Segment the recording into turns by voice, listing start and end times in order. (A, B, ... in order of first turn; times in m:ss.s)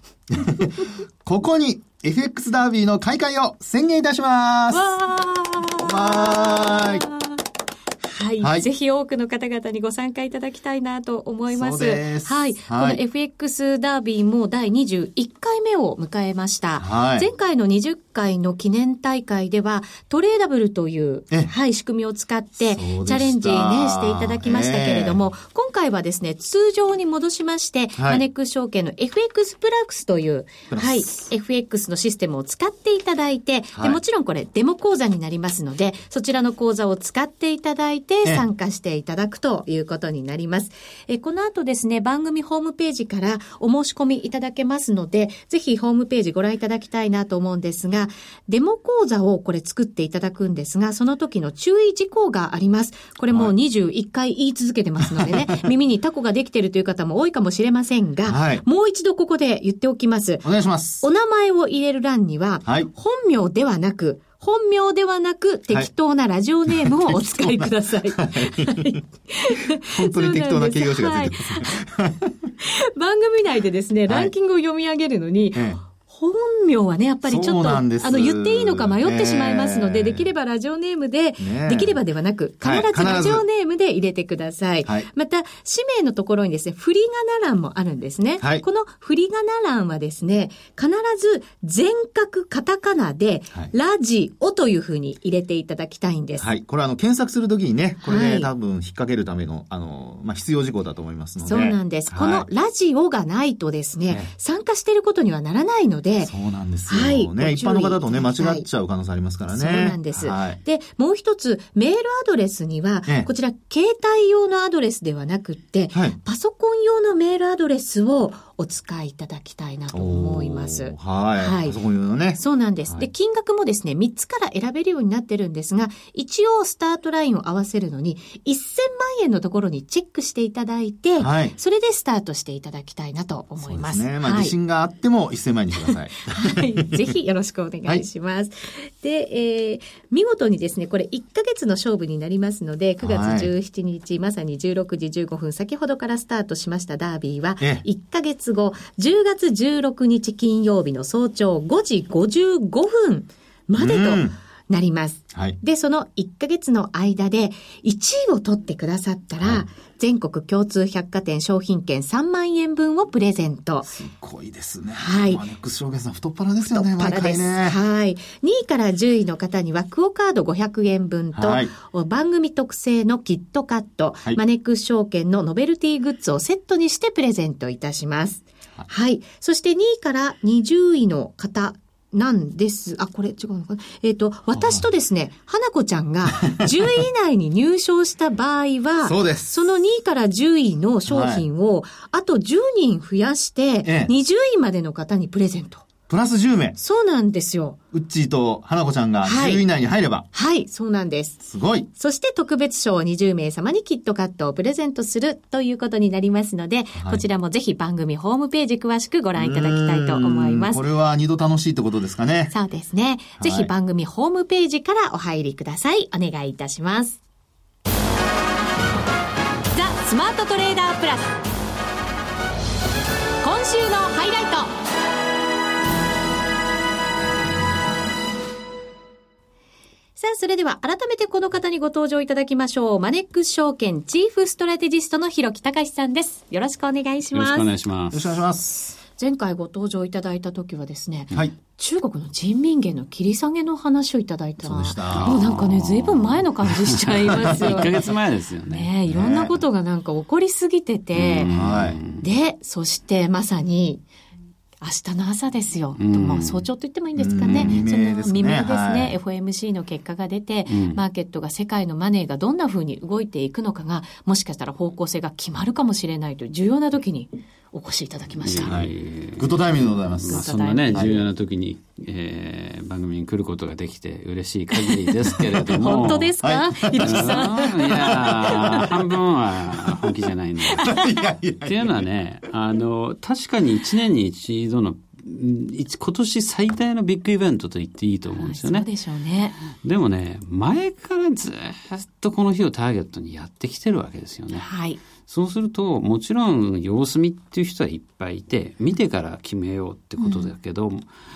0:00.3-0:05.0 A
0:04.7-0:07.4 B
0:05.8-0:07.0 A
0:08.1-1:00.4 B
0:08.4-0:08.7 A
0:11.5-0:13.0 A
0:16.8-0:17.3 A
0:22.6-0:25.2 A
0:28.0-0:28.2 A
0:30.7-0:31.0 A
0:33.7-0:34.0 A
0:55.0-0:55.6 A
0:58.2-0:58.6 A
1:00.4-1:01.0 A
1:01.0-1:11.8 B
1:02.6-1:02.9 A
1:06.7-1:09.0 A
1:09.8-1:12.3 A
1:12.6-1:36.5 B
1:14.1-1:14.3 A
1:15.5-1:15.8 A
1:17.3-1:20.2 A
1:21.4-1:22.0 A
1:22.6-1:23.4 A
1:36.4-1:42.4 A
1:38.0-1:38.5 B
1:41.4-1:46.3 B
1:46.2-1:50.6 A
1:46.9-1:48.6 B
1:49.5-2:01.8 B
1:59.9-2:03.1 A
2:02.3-2:14.5 B
2:11.2-2:11.6 A
2:13.6-2:16.9 A
2:16.2-2:43.9 B
2:23.0-2:23.5 A
2:33.8-2:34.3 A
2:43.8-2:47.8 A
2:44.9-2:45.4 B
2:46.7-3:15.8 B
2:51.3-2:51.7 A
3:04.6-3:04.8 A
3:09.0-3:09.5 A
3:11.1-3:11.4 A
3:13.8-3:14.1 A
3:16.1-3:16.8 A
3:16.8-3:17.8 B
3:17.9-3:20.2 A
3:19.2-3:19.6 B
3:20.3-3:30.8 B
3:21.5-3:21.9 A
3:27.0-3:27.2 A
3:29.4-3:32.5 A
3:32.5-3:37.2 B
3:33.4-3:33.7 A
3:39.7-3:41.4 B
3:43.4-3:44.7 B
3:50.2-3:57.7 B
3:57.3-3:58.3 C
3:58.1-3:58.9 A
3:59.1-4:08.1 B
4:04.6-4:05.4 A
4:05.1-4:08.9 C
4:08.7-4:11.5 B
4:09.1-4:09.5 A
4:11.1-4:12.2 C
4:11.4-4:12.0 A
4:12.2-4:14.0 B
4:14.8-4:28.8 B
4:16.0-4:16.6 C
4:17.2-4:19.2 A
4:17.4-4:17.8 C
4:20.7-4:21.0 C
4:28.4-4:36.3 C
4:28.6-4:31.2 A
4:30.2-4:31.2 B
4:34.7-4:35.1 B
4:35.4-4:38.9 A
4:35.6-4:38.8 B
4:36.9-4:41.0 C
4:39.8-4:40.0 A
4:40.7-4:41.1 B
4:40.8-4:42.0 A
4:41.6-4:48.9 C
4:48.3-4:49.6 B
4:49.7-5:01.1 C
4:54.5-4:55.0 B
5:00.2-5:00.5 B